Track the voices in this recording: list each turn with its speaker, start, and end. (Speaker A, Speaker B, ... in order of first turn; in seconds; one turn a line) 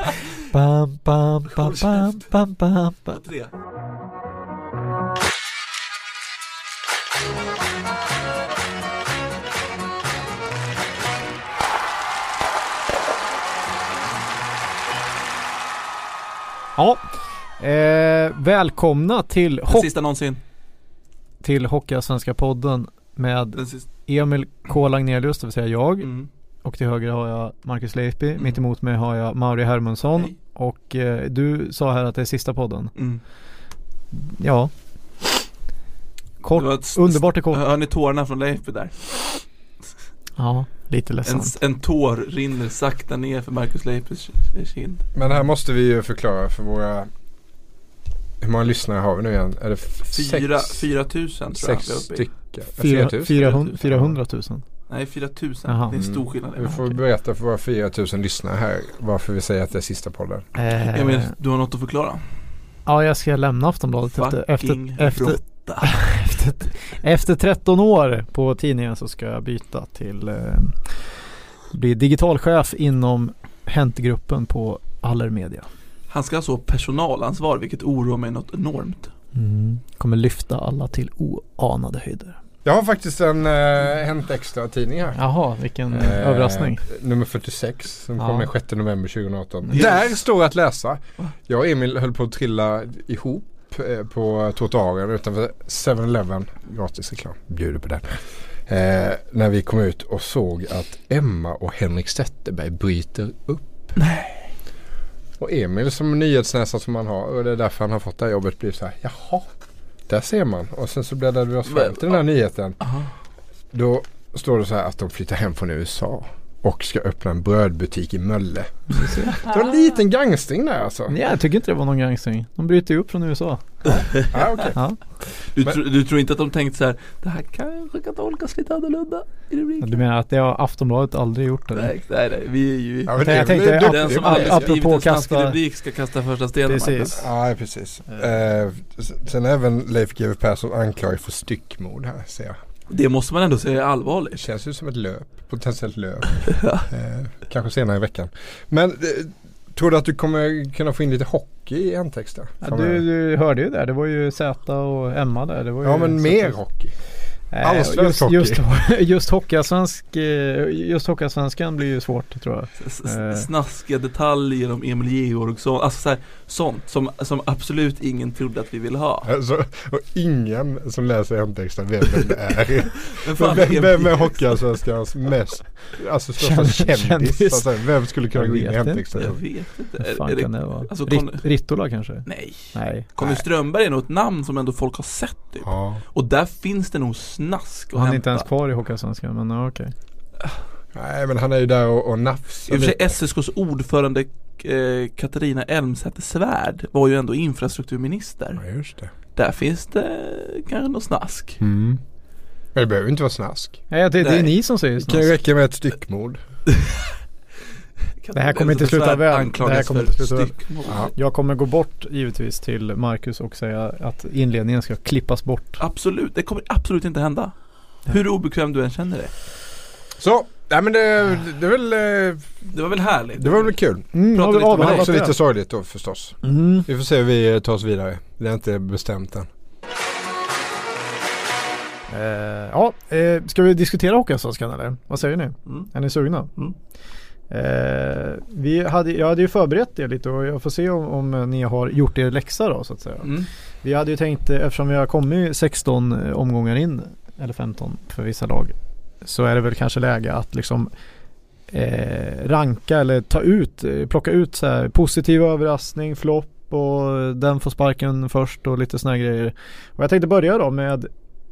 Speaker A: 0.5-3.2
Speaker B: 1.5-2.4
Speaker B: 3.1-3.5
Speaker A: 16.8-19.9
Speaker B: 19.7-20.4
Speaker A: 21.4-33.1
Speaker B: 23.6-23.9
Speaker B: 26.0-26.3
Speaker B: 33.0-33.2
Speaker A: 34.1-35.3
Speaker A: 36.4-37.6
Speaker B: 36.5-39.5
Speaker A: 40.4-41.6
Speaker B: 41.2-45.1
Speaker C: 45.1-47.1
Speaker C: 48.4-53.9
Speaker B: 50.0-52.3
Speaker A: 52.8-54.6
Speaker B: 53.4-54.2
Speaker B: 54.9-56.8
Speaker A: 55.7-56.0
Speaker C: 55.9-60.5
Speaker A: 60.5-61.3
Speaker B: 60.9-62.2
Speaker A: 62.9-75.7
Speaker B: 64.1-66.4
Speaker B: 76.1-79.1
Speaker A: 79.3-82.4
Speaker C: 82.6-85.3
Speaker A: 85.2-86.8
Speaker C: 85.9-103.9
Speaker A: 88.2-88.5
Speaker B: 89.7-90.2
Speaker B: 104.0-104.5
Speaker C: 105.4-109.5
Speaker C: 110.1-112.9
Speaker B: 111.7-112.2
Speaker B: 112.8-113.1
Speaker C: 113.7-121.2
Speaker A: 119.0-119.3
Speaker A: 121.1-124.0
Speaker B: 123.9-124.7
Speaker C: 124.3-125.8
Speaker B: 125.4-129.9
Speaker A: 129.8-131.9
Speaker B: 131.7-137.2
Speaker C: 133.1-134.7
Speaker A: 133.2-135.6
Speaker A: 136.7-137.2
Speaker C: 137.2-142.6
Speaker B: 142.9-144.4
Speaker C: 144.3-153.0
Speaker B: 146.6-146.9
Speaker A: 152.6-156.7
Speaker C: 155.8-158.6
Speaker A: 157.5-163.5
Speaker B: 162.8-169.3
Speaker C: 169.2-179.4
Speaker B: 173.2-174.7
Speaker A: 176.4-183.1
Speaker B: 179.2-188.5
Speaker C: 185.6-186.0
Speaker A: 187.9-189.9
Speaker C: 190.9-193.2
Speaker B: 192.7-198.7
Speaker C: 198.6-199.1
Speaker B: 199.3-201.6
Speaker C: 201.6-202.0
Speaker C: 202.7-203.8
Speaker A: 203.9-205.3
Speaker B: 204.2-204.5
Speaker C: 205.0-206.4
Speaker B: 208.2-211.1
Speaker A: 208.3-215.8
Speaker B: 215.8-219.3
Speaker C: 220.2-222.7
Speaker B: 222.7-225.1
Speaker C: 223.4-229.5
Speaker A: 224.1-225.3
Speaker A: 226.4-226.8
Speaker A: 232.1-236.6
Speaker A: 237.5-250.9
Speaker B: 243.2-243.5
Speaker A: 251.7-261.1